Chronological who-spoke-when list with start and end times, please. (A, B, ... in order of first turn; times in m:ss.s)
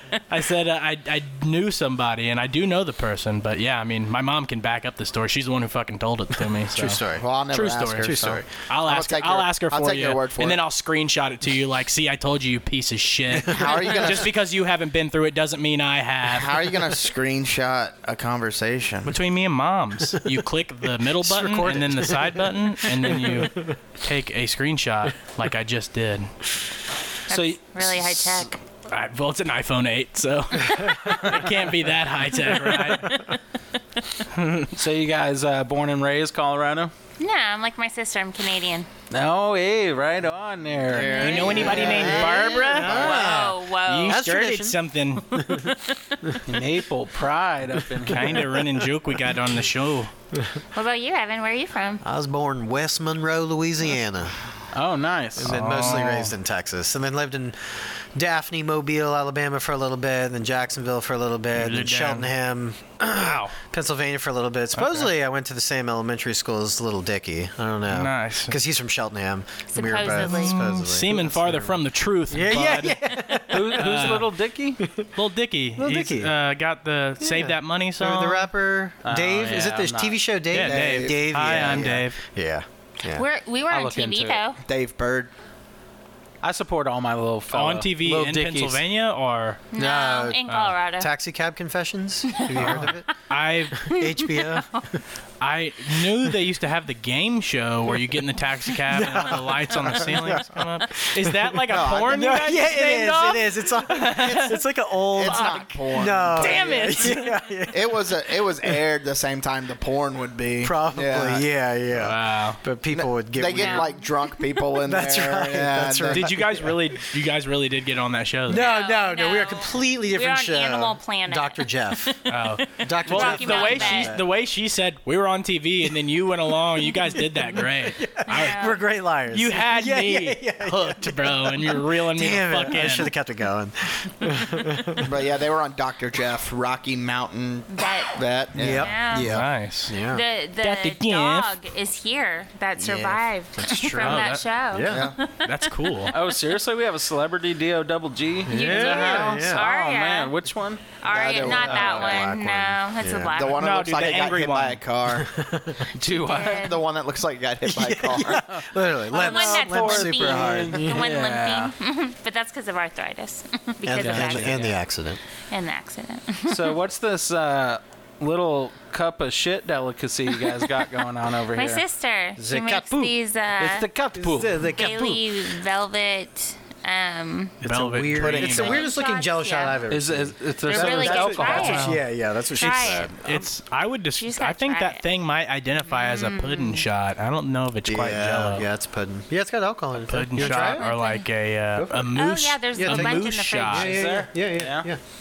0:00.3-0:16.7 A
0:06.5-0:07.2 B
0:07.1-0:10.6 C
0:08.0-0:08.4 B
0:13.3-0:13.8 B
0:13.5-0:14.3 C
0:16.3-0:19.1 C
0:19.0-0:26.3 A
0:21.2-0:23.6 B
0:27.3-0:28.6 D
0:27.3-0:28.4 E
0:28.9-0:33.4 A
0:34.3-0:34.7 A
0:34.8-0:36.9 E
0:37.2-0:38.9 D
0:39.1-0:42.1 E
0:40.9-0:43.1 C
0:40.9-0:42.1 D
0:41.2-0:45.7 A
0:41.5-0:44.8 B
0:42.8-0:44.2 D
0:45.3-0:45.7 B
0:46.4-0:48.5 E
0:48.1-0:50.1 A
0:50.7-0:52.0 D
0:52.0-0:54.4 B
0:54.7-0:55.7 E
0:55.4-1:14.1 B
0:55.5-0:56.3 A
1:01.6-1:02.3 A
1:03.1-1:03.5 A
1:04.7-1:05.1 A
1:07.9-1:08.6 A
1:09.7-1:10.6 D
1:10.1-1:14.3 A
1:13.5-1:14.8 E
1:14.8-1:15.1 B
1:15.1-1:18.5 A
1:15.8-1:16.3 B
1:17.2-1:23.2 B
1:19.0-1:20.2 E
1:20.5-1:22.2 A
1:20.5-1:21.9 C
1:23.1-1:24.6 D
1:23.7-1:24.5 E
1:24.6-1:25.3 C
1:26.4-1:28.8 E
1:27.5-1:29.7 A
1:29.7-1:31.1 D
1:29.7-1:33.1 B
1:30.5-1:30.8 A
1:32.3-1:33.1 D
1:32.6-1:33.9 A
1:33.8-1:34.8 B
1:33.8-1:34.8 D
1:35.4-1:44.6 A
1:38.8-1:48.8 B
1:41.7-1:42.2 C
1:45.1-1:47.1 C
1:45.3-1:45.7 D
1:46.3-1:47.4 A
1:47.7-1:51.4 C
1:50.6-1:54.0 B
1:51.9-1:52.6 A
1:52.9-1:56.3 C
1:53.5-1:53.9 D
1:54.7-1:57.0 B
1:56.1-1:58.7 A
1:58.5-2:02.2 B
1:58.5-2:02.1 D
2:02.3-2:08.7 A
2:02.7-2:04.3 B
2:03.0-2:04.2 D
2:07.0-2:15.1 B
2:08.2-2:08.8 D
2:09.3-2:13.1 A
2:15.0-2:18.9 C
2:17.7-2:18.2 D
2:18.5-2:20.2 B
2:18.7-2:19.3 D
2:19.2-2:20.0 A
2:20.1-2:26.0 D
2:20.6-2:21.5 A
2:22.8-2:25.1 B
2:23.9-2:24.4 A
2:24.9-2:25.2 C
2:25.4-2:26.1 A
2:26.1-2:32.0 E
2:28.5-2:29.7 B
2:28.5-2:30.3 D
2:31.0-2:33.6 D
2:31.1-2:32.2 C
2:31.2-2:33.5 B
2:33.3-2:35.3 C
2:33.6-2:34.8 A
2:35.1-2:35.9 B
2:35.9-2:36.8 E
2:36.1-2:36.8 D
2:36.4-2:38.4 C
2:37.6-2:41.0 B
2:38.4-2:41.7 E
2:39.1-2:44.7 D
2:43.8-2:45.2 B
2:44.0-2:44.8 E
2:45.5-2:46.8 D
2:46.5-2:51.8 E
2:51.5-2:53.9 D
2:52.4-2:53.2 B
2:53.6-2:54.7 E
2:54.1-2:55.3 B
2:54.7-2:57.6 D
2:57.6-3:03.5 B
2:57.6-2:58.8 A
2:58.2-2:59.8 D
2:59.9-3:01.9 E
3:00.6-3:01.9 D
3:01.4-3:02.0 A
3:02.6-3:03.1 D
3:02.6-3:08.6 A
3:04.2-3:05.0 D
3:05.9-3:06.8 D
3:07.9-3:10.8 B
3:10.0-3:14.0 A
3:10.5-3:11.2 D
3:11.7-3:12.2 B
3:12.1-3:13.9 D
3:12.7-3:15.0 B
3:13.7-3:14.9 E